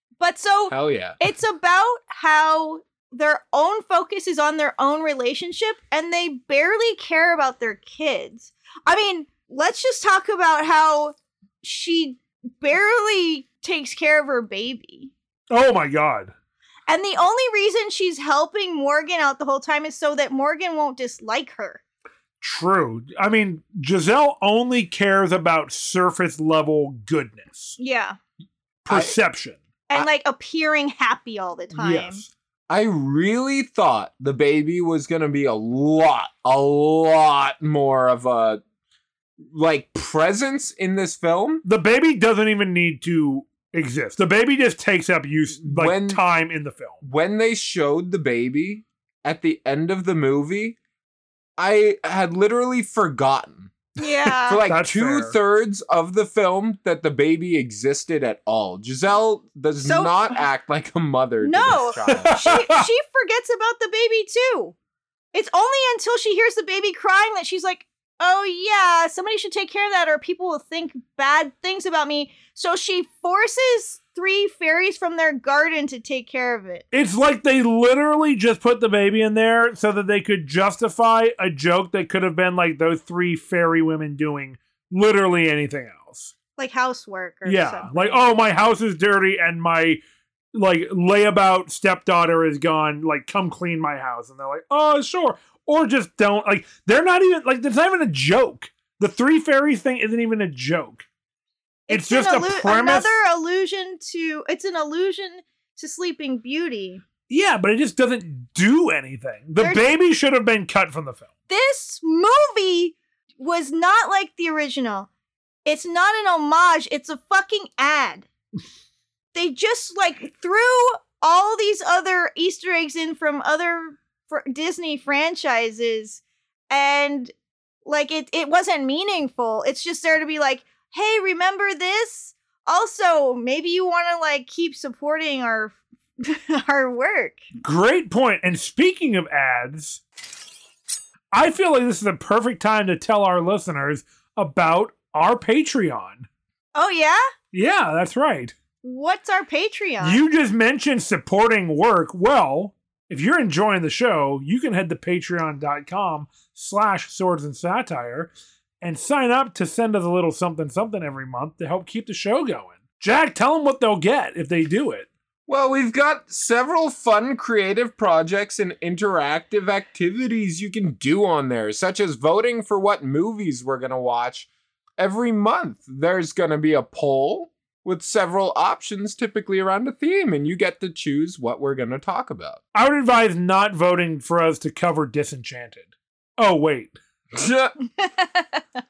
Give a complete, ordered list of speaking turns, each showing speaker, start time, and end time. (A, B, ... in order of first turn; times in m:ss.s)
0:00.2-0:15.1 A
0:00.7-0:01.2 B
0:15.5-0:16.3 C
0:16.9-0:21.8 A
0:22.4-0:27.8 C
0:27.8-0:28.2 A
0:28.8-0:29.6 C
0:28.9-0:29.2 B
0:29.9-0:32.2 A
0:31.7-0:32.3 C
0:32.7-0:38.6 B
0:39.5-0:41.6 B
0:41.6-0:47.0 C
0:45.6-0:46.2 B
0:47.0-0:50.8 B
0:51.6-0:53.7 B
0:54.0-0:54.6 A
0:54.4-1:02.5 B
0:54.6-0:55.4 C
0:59.8-1:00.4 A
1:01.4-1:04.7 A
1:02.0-1:02.9 C
1:05.3-1:16.8 A
1:16.9-1:26.3 C
1:26.6-1:28.2 A
1:27.4-1:30.0 C
1:30.5-1:41.0 C
1:41.9-1:47.0 A
1:41.9-1:43.2 C
1:47.3-1:51.3 C
1:49.6-1:49.9 A
1:51.5-1:55.1 A
1:55.6-1:58.3 A
1:59.3-2:07.3 A
2:07.8-2:17.5 A
2:17.6-2:20.0 C
2:21.3-2:26.3 C
2:26.7-2:27.3 A
2:27.5-2:28.5 C
2:28.8-2:30.2 A
2:30.0-2:45.1 C
2:45.5-3:02.6 B
3:02.7-3:06.9 C
3:07.3-3:07.7 B
3:08.0-3:08.6 A